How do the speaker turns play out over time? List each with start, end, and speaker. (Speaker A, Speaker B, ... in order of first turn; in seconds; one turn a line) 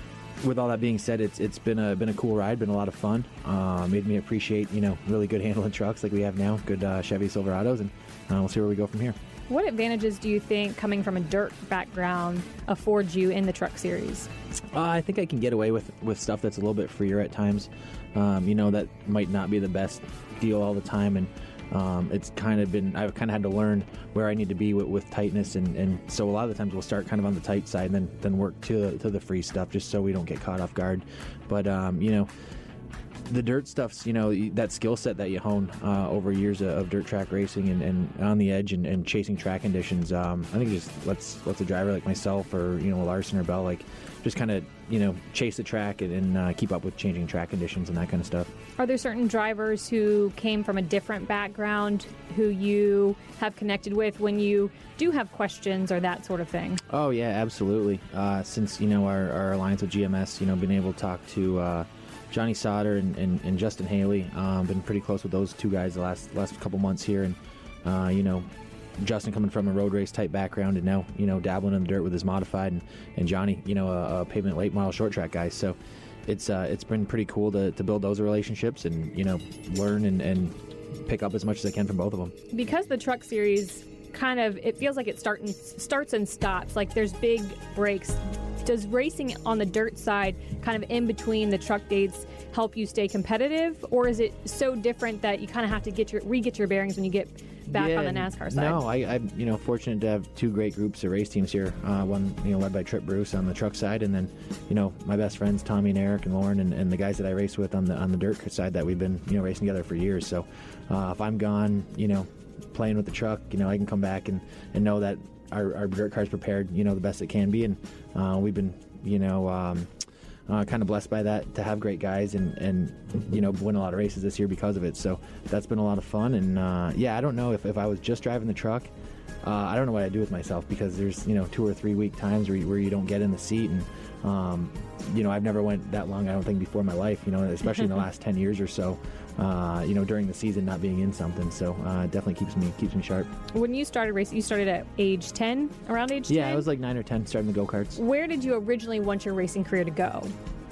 Speaker A: 0.4-9.2
Speaker B: 9.5-14.3
Speaker A: 14.7-32.3
Speaker A: 33.3-48.5
Speaker B: 48.8-56.8
Speaker A: 56.9-68.5
Speaker A: 69.0-82.3
Speaker B: 82.5-98.8
Speaker A: 97.7-119.9
Speaker A: 120.5-128.9
Speaker A: 129.4-143.3
Speaker B: 137.7-137.9
Speaker B: 143.5-146.7
Speaker A: 146.3-148.0
Speaker B: 147.9-150.3